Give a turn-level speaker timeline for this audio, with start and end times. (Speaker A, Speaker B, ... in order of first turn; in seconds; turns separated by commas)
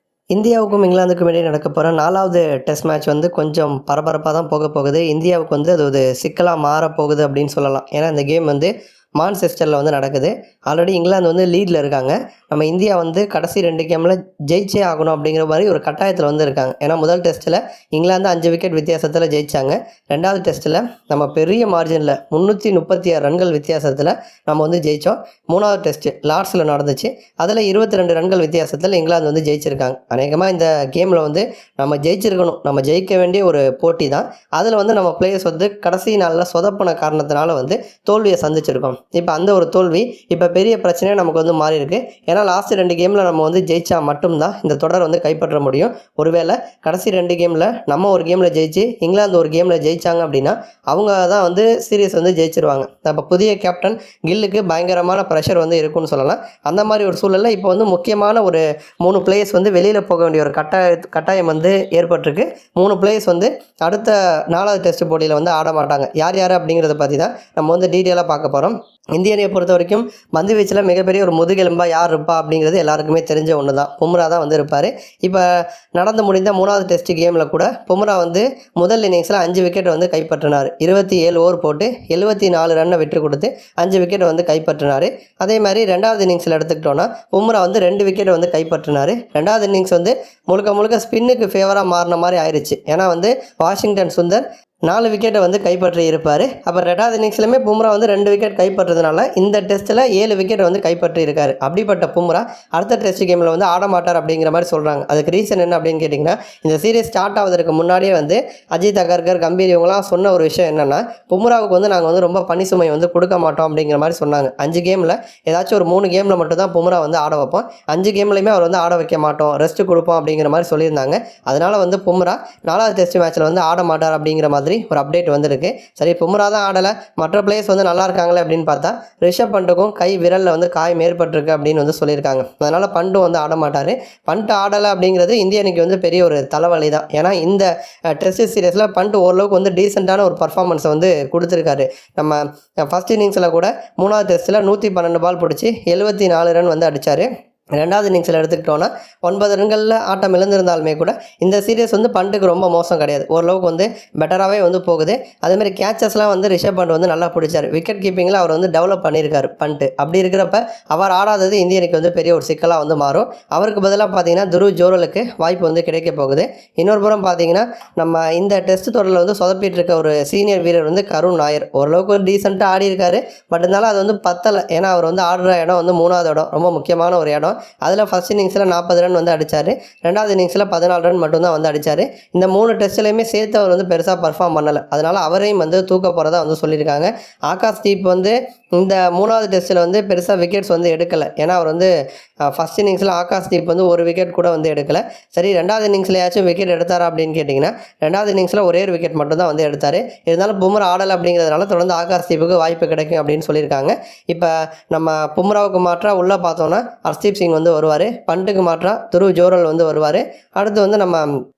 Speaker A: 0.3-191.9, Speaker A: 192.5-211.3